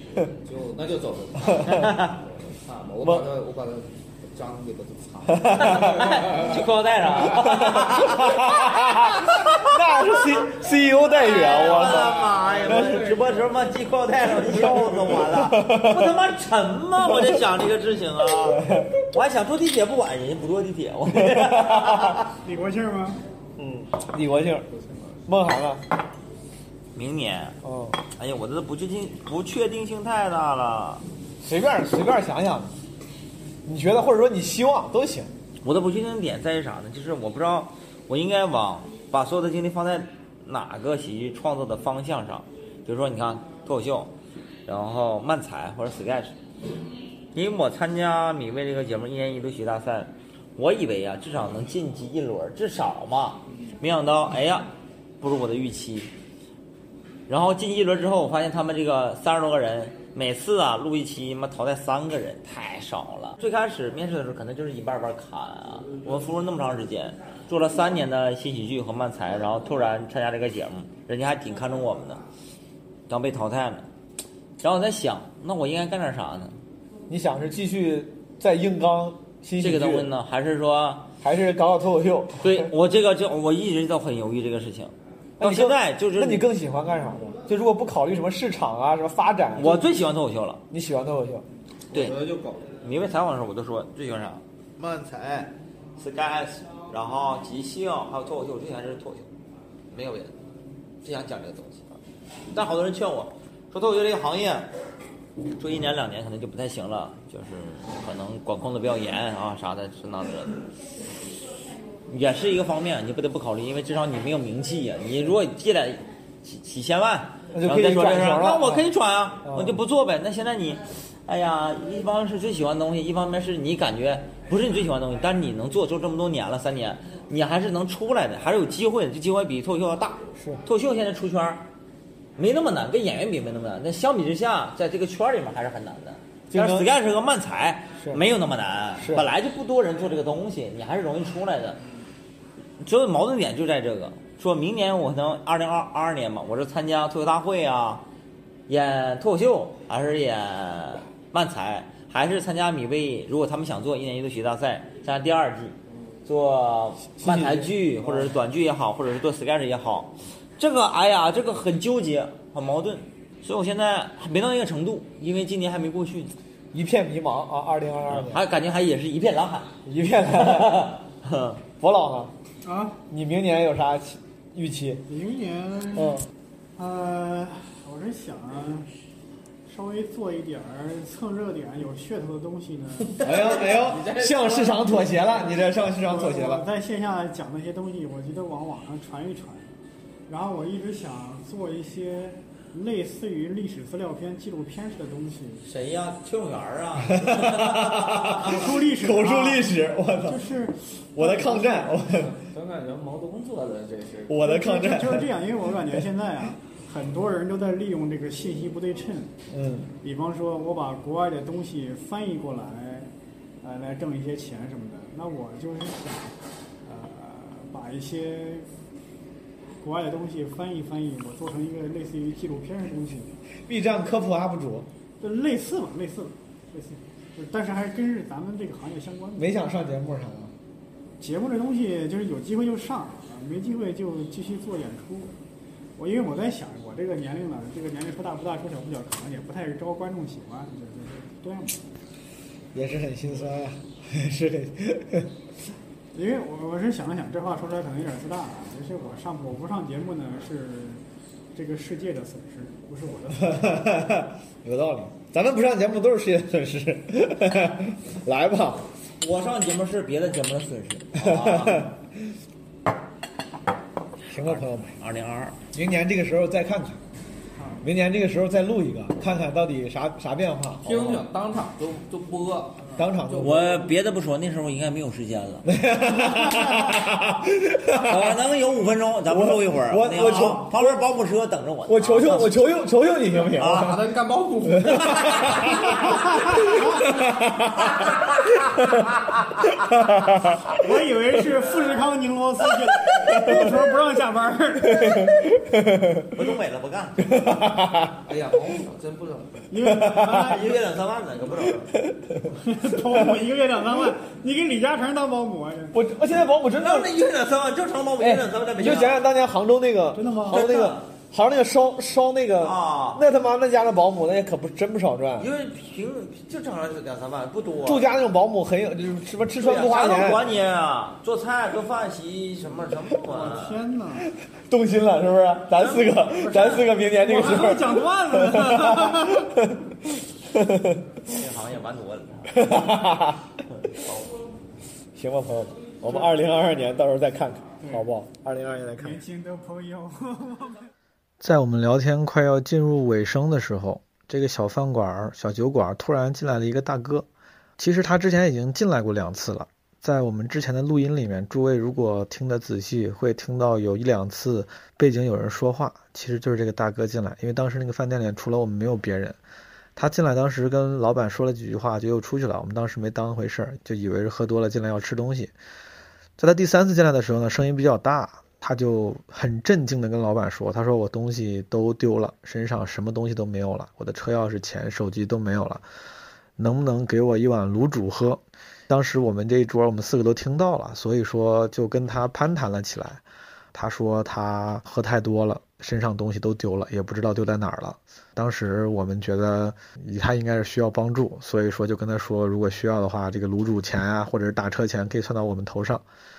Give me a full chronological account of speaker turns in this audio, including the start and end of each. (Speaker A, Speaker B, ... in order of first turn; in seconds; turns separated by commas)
Speaker A: 0.1-6.7, Speaker B: 1.6-2.2, Speaker C: 5.3-6.0, Speaker B: 5.5-9.7, Speaker C: 7.5-12.2, Speaker B: 11.0-22.3, Speaker A: 11.5-13.6, Speaker C: 14.5-16.2, Speaker C: 17.1-17.4, Speaker C: 18.5-18.9, Speaker C: 21.2-22.1, Speaker D: 22.4-23.2, Speaker C: 23.6-24.6, Speaker A: 24.7-25.2, Speaker C: 25.3-25.8, Speaker B: 26.9-27.6, Speaker C: 27.6-28.0, Speaker B: 28.2-31.0, Speaker C: 31.4-32.7, Speaker C: 33.6-35.3, Speaker B: 35.6-44.1, Speaker B: 44.7-46.4, Speaker B: 47.3-54.7, Speaker B: 55.2-56.1, Speaker B: 57.3-72.2, Speaker B: 73.1-73.9, Speaker B: 74.6-76.6, Speaker C: 77.1-80.1, Speaker B: 79.6-81.1, Speaker C: 81.2-82.7, Speaker B: 82.4-86.5, Speaker C: 85.4-89.9, Speaker B: 89.5-90.6, Speaker C: 90.7-91.4, Speaker A: 91.9-92.7, Speaker B: 91.9-92.2, Speaker B: 92.8-94.4, Speaker B: 96.0-99.3, Speaker B: 99.9-100.4, Speaker B: 101.0-102.0, Speaker B: 102.5-104.7, Speaker B: 105.6-110.7, Speaker B: 112.1-131.7, Speaker C: 117.5-118.9, Speaker C: 119.4-119.8, Speaker B: 132.4-141.8, Speaker C: 136.5-136.9, Speaker C: 139.0-139.3, Speaker B: 142.8-148.1, Speaker B: 148.7-155.8, Speaker B: 156.3-166.3, Speaker C: 157.2-158.3, Speaker C: 166.7-168.4, Speaker B: 168.1-169.7, Speaker C: 169.9-171.0, Speaker B: 170.3-171.6, Speaker C: 171.8-172.3, Speaker D: 172.6-173.0, Speaker C: 173.1-175.0, Speaker D: 175.1-176.2, Speaker D: 176.8-178.9, Speaker D: 179.7-183.2, Speaker C: 183.2-186.6, Speaker A: 183.2-185.6, Speaker D: 186.0-189.7, Speaker D: 190.3-195.6, Speaker B: 195.6-198.5, Speaker C: 197.1-200.4, Speaker D: 198.4-202.0, Speaker C: 201.2-202.3, Speaker A: 202.1-204.5, Speaker C: 204.3-205.2, Speaker D: 204.4-209.3, Speaker C: 209.5-209.9, Speaker D: 210.0-213.1, Speaker D: 213.6-216.3, Speaker D: 216.8-218.7, Speaker D: 219.8-223.4, Speaker C: 223.7-224.9, Speaker D: 225.2-229.6, Speaker C: 229.4-230.5, Speaker D: 231.2-235.3, Speaker D: 236.0-241.8, Speaker C: 242.7-245.3, Speaker D: 246.1-251.0, Speaker D: 251.5-253.8, Speaker C: 253.4-258.8, Speaker B: 259.2-261.9, Speaker C: 261.2-261.9, Speaker C: 264.3-264.9, Speaker B: 264.4-265.6, Speaker C: 265.7-267.0, Speaker C: 267.8-271.2, Speaker A: 270.8-273.9, Speaker C: 273.0-273.6, Speaker B: 273.4-275.7, Speaker C: 275.6-278.4, Speaker B: 277.9-282.6, Speaker C: 279.3-281.0, Speaker C: 281.9-284.0, Speaker B: 283.6-284.0, Speaker A: 283.6-285.8, Speaker C: 284.8-285.5, Speaker D: 290.8-295.4, Speaker C: 293.3-293.7, Speaker C: 294.8-296.2, Speaker B: 296.3-297.4, Speaker C: 297.2-298.1, Speaker A: 298.2-299.8, Speaker D: 299.7-300.8, Speaker C: 299.9-300.4, Speaker B: 300.4-301.9, Speaker C: 301.9-302.3, Speaker D: 302.6-306.0, Speaker C: 305.9-307.1, Speaker B: 306.8-309.3, Speaker C: 308.2-315.5, Speaker D: 310.1-310.6, Speaker B: 310.5-311.0, Speaker B: 312.6-313.2, Speaker B: 315.4-318.1, Speaker C: 317.8-320.4, Speaker B: 319.6-323.8, Speaker D: 323.3-324.3, Speaker C: 324.7-329.8, Speaker B: 325.8-326.6, Speaker D: 326.3-329.4, Speaker C: 330.5-331.0, Speaker B: 331.3-332.7, Speaker C: 332.5-333.4, Speaker C: 335.1-339.2, Speaker D: 337.8-338.1, Speaker D: 339.0-340.9, Speaker E: 341.4-347.3, Speaker E: 347.8-359.4, Speaker E: 360.0-365.5, Speaker E: 366.4-375.8, Speaker E: 376.6-383.2, Speaker E: 383.7-396.0